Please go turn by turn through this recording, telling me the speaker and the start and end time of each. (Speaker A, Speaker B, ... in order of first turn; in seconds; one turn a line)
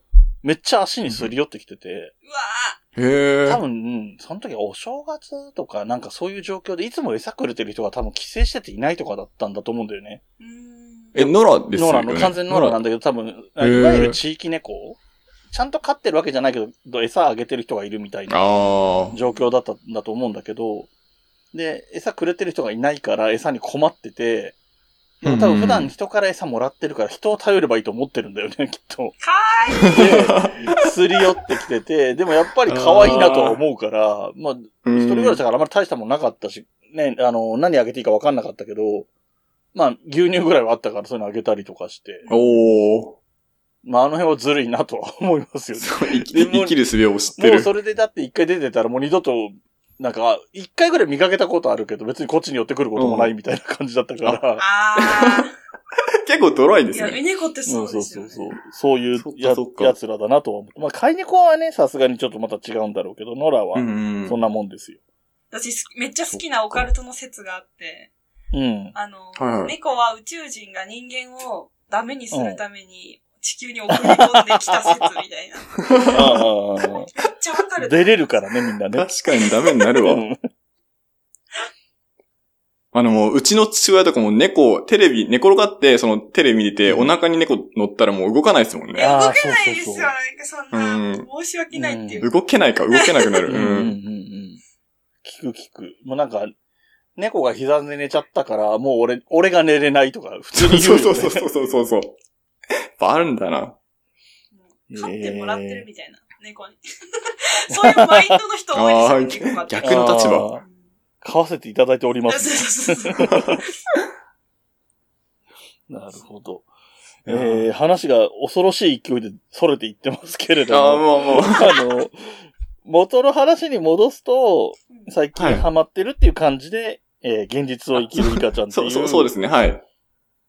Speaker A: 0.4-2.1
Speaker B: 2.2-2.8
Speaker C: 3.0-3.6
Speaker A: 3.5-10.2
Speaker B: 10.4-11.1
Speaker C: 11.1-12.8
Speaker A: 11.2-15.0
Speaker C: 13.6-14.2
Speaker A: 15.5-18.6
Speaker C: 18.3-19.1
Speaker A: 19.1-20.9
Speaker B: 19.2-19.5
Speaker A: 21.5-24.6
Speaker A: 25.2-29.1
Speaker C: 25.2-25.9
Speaker B: 29.2-30.4
Speaker C: 29.9-30.6
Speaker A: 29.9-39.1
Speaker C: 32.6-33.6
Speaker C: 34.8-35.4
Speaker A: 39.7-42.2
Speaker B: 42.2-42.8
Speaker C: 42.3-43.2
Speaker A: 43.8-46.8
Speaker C: 45.8-47.7
Speaker A: 47.3-54.6
Speaker C: 53.0-53.3
Speaker B: 54.6-55.5
Speaker C: 55.0-55.5
Speaker C: 56.1-57.2
Speaker B: 56.9-58.4
Speaker A: 57.7-65.0
Speaker C: 59.1-59.9
Speaker C: 63.7-64.4
Speaker B: 65.5-68.1
Speaker C: 66.3-66.9
Speaker A: 68.5-68.9
Speaker B: 68.9-78.4
Speaker C: 69.4-69.7
Speaker A: 72.3-72.6
Speaker A: 73.9-75.1
Speaker C: 75.8-76.4
Speaker A: 76.1-77.1
Speaker A: 77.8-79.1
Speaker C: 78.9-80.2
Speaker A: 80.0-80.4
Speaker C: 82.9-89.1
Speaker A: 86.8-87.1
Speaker B: 88.9-92.3
Speaker A: 89.0-90.1
Speaker C: 90.7-91.2
Speaker A: 91.7-92.3
Speaker C: 92.2-94.0
Speaker B: 92.9-93.3
Speaker A: 93.5-94.6
Speaker A: 95.2-96.5
Speaker A: 97.2-101.5
Speaker C: 100.6-102.2
Speaker C: 103.0-103.8
Speaker B: 104.5-110.8
Speaker A: 104.9-105.8
Speaker A: 107.7-108.4
Speaker C: 108.7-110.5
Speaker A: 109.8-110.6
Speaker A: 111.2-113.6
Speaker B: 112.3-113.4
Speaker A: 115.9-116.7
Speaker C: 117.2-117.7
Speaker A: 117.3-129.3
Speaker C: 120.7-121.8
Speaker C: 125.3-125.7
Speaker C: 127.9-129.8